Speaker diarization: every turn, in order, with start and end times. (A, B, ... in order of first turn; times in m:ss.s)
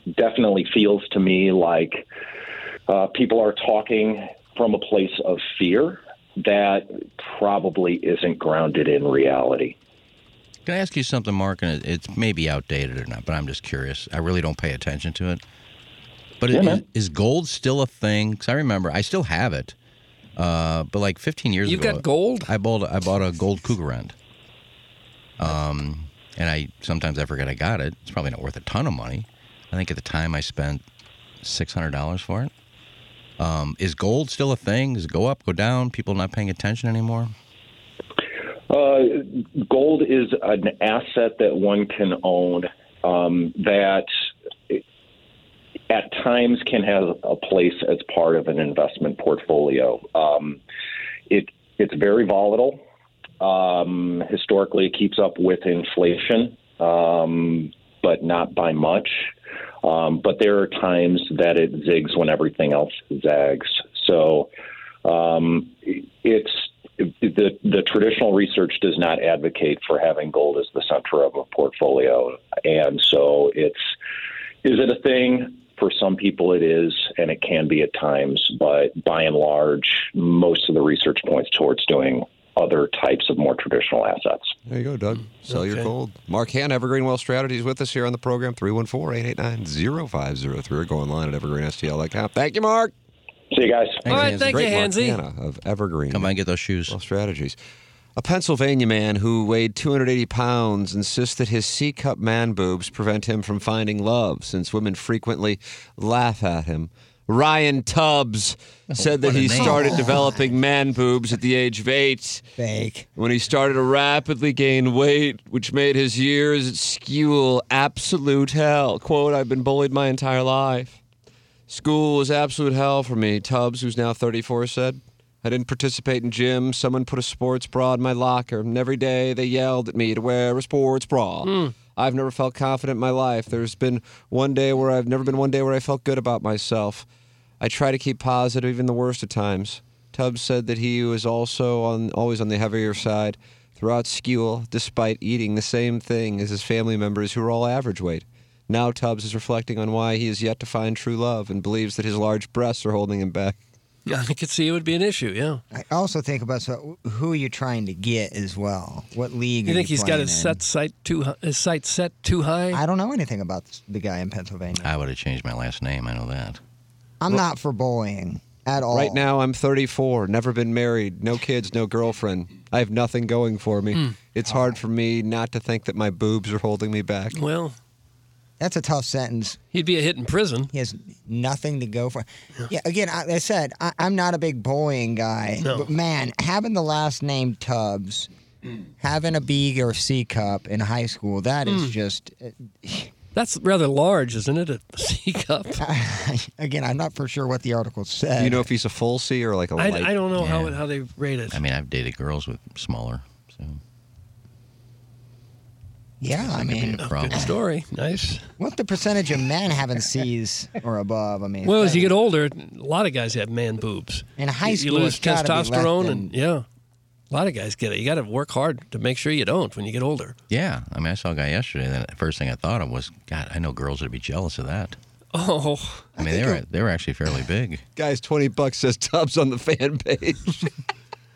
0:00.1-0:02.0 A
0:02.9-0:09.8 A
0:10.6-0:15.4 B
0:16.4-0:19.7 B
0:16.5-0:16.8 A
0:20.4-0:24.1 B
0:21.6-0:22.5 C
0:25.4-0:30.8 B
0:31.4-0:32.5 B
0:33.4-0:37.3 B
0:38.7-0:44.1 A
0:45.9-0:50.6 A
0:51.3-0:52.8 A
0:53.4-0:59.3 A
0:59.8-1:04.5 A
1:05.0-1:13.9 A
1:14.6-1:24.5 A
1:24.6-1:32.9 D
1:25.5-1:25.9 C
1:33.5-1:34.2 A
1:34.1-1:35.2 C
1:34.1-1:34.5 B
1:34.1-1:36.3 D
1:36.1-1:36.9 B
1:36.9-1:37.6 D
1:38.2-1:52.4 D
1:48.9-1:50.3 B
1:49.5-1:50.4 E
1:52.6-1:53.1 E
1:53.2-2:01.0 D
2:01.7-2:17.0 D
2:11.4-2:11.7 C
2:17.6-2:33.6 D
2:34.0-2:35.6 C
2:35.7-2:40.6 E
2:39.6-2:42.8 C
2:42.7-2:44.9 E
2:44.8-2:46.6 B
2:47.2-2:49.3 E
2:48.9-2:57.4 D
2:57.3-2:57.8 C
2:58.6-2:59.6 E
2:59.7-3:00.7 C
3:00.7-3:08.3 E
3:05.6-3:05.9 C
3:09.0-3:13.1 E
3:11.7-3:11.9 C
3:13.3-3:15.8 C
3:15.8-3:18.7 E
3:18.4-3:20.2 D
3:19.8-3:21.6 C
3:20.4-3:20.8 B
3:21.5-3:23.8 B
3:26.2-3:27.5 E
3:26.4-3:27.5 B
3:27.0-3:28.4 C
3:28.6-3:32.1 E
3:31.6-3:36.6 C
3:34.4-3:36.3 E
3:37.3-3:40.3 C
3:40.5-3:45.0 B
3:45.3-3:46.2 C
3:46.2-3:47.8 B
3:48.0-3:50.7 D